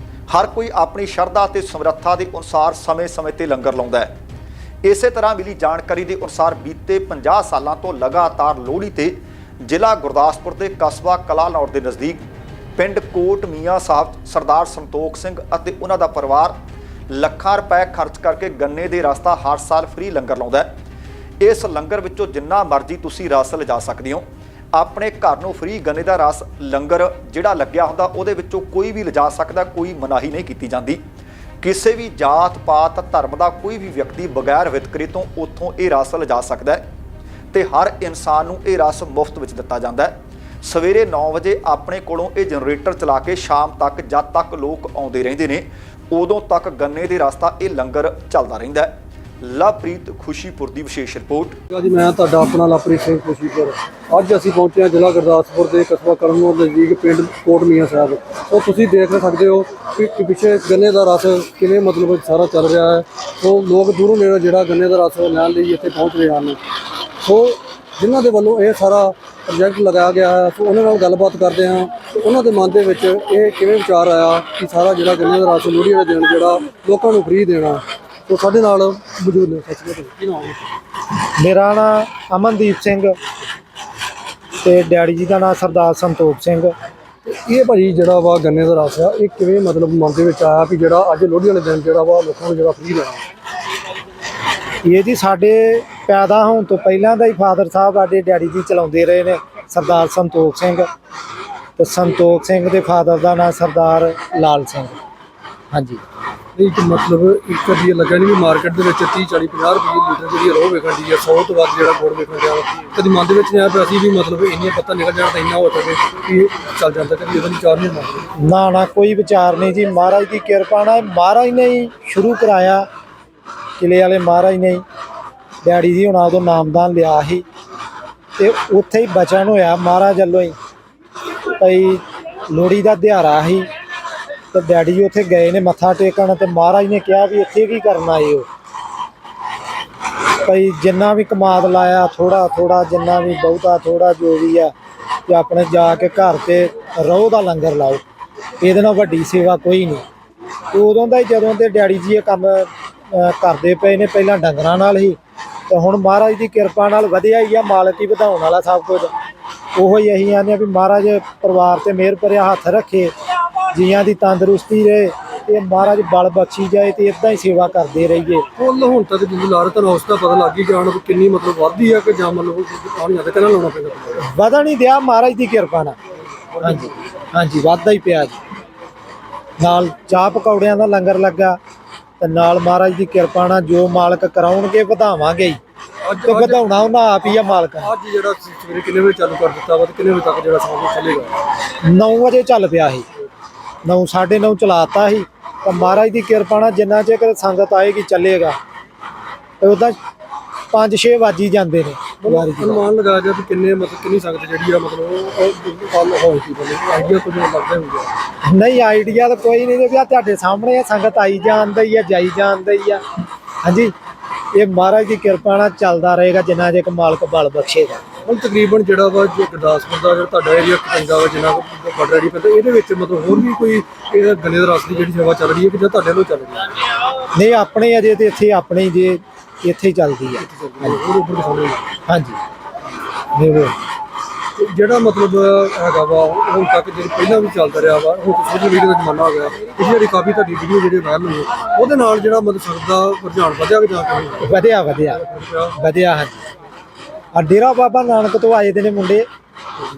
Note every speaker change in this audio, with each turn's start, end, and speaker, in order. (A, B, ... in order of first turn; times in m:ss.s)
0:00.3-0:04.1 A
0:04.8-0:12.2 A
0:12.8-0:16.6 A
0:17.1-0:20.7 A
0:21.4-0:31.0 A
0:31.6-0:36.8 A
0:37.5-0:51.6 A
0:51.7-1:06.6 B
1:07.2-1:20.7 B
1:21.4-1:23.1 C
1:24.6-1:26.7 C
1:27.2-1:33.2 B
1:34.8-1:40.9 C
1:41.8-1:45.0 C
1:45.7-1:46.0 C
1:46.6-1:58.3 B
1:58.4-2:02.9 C
2:03.8-2:04.8 C
2:05.6-2:07.4 C
2:08.4-2:10.6 C
2:11.6-2:13.7 C
2:14.5-2:18.5 C
2:20.4-2:24.7 C
2:25.3-2:28.0 C
2:28.6-2:30.0 C
2:30.7-2:35.2 C
2:35.7-2:39.1 C
2:39.8-2:43.1 C
2:43.7-2:48.4 C
2:48.6-2:54.2 B
2:54.2-2:56.0 C
2:56.5-2:57.0 B
2:56.6-2:58.4 C
2:59.6-3:01.6 C
3:02.2-3:05.6 C
3:06.0-3:06.7 B
3:06.2-3:07.9 C
3:07.8-3:11.4 B
3:11.8-3:13.0 C
3:13.8-3:18.6 C
3:19.6-3:20.0 C
3:20.7-3:22.8 C
3:22.2-3:28.2 B
3:28.5-3:33.0 C
3:33.6-3:33.9 C
3:34.5-3:38.0 C
3:38.2-3:46.7 B
3:47.3-3:50.4 C
3:50.4-3:51.9 B
3:52.1-3:52.4 C
3:53.3-3:53.7 C
3:54.6-4:04.5 B
4:04.4-4:05.2 C
4:05.1-4:05.8 B
4:05.8-4:06.4 C
4:07.3-4:09.3 C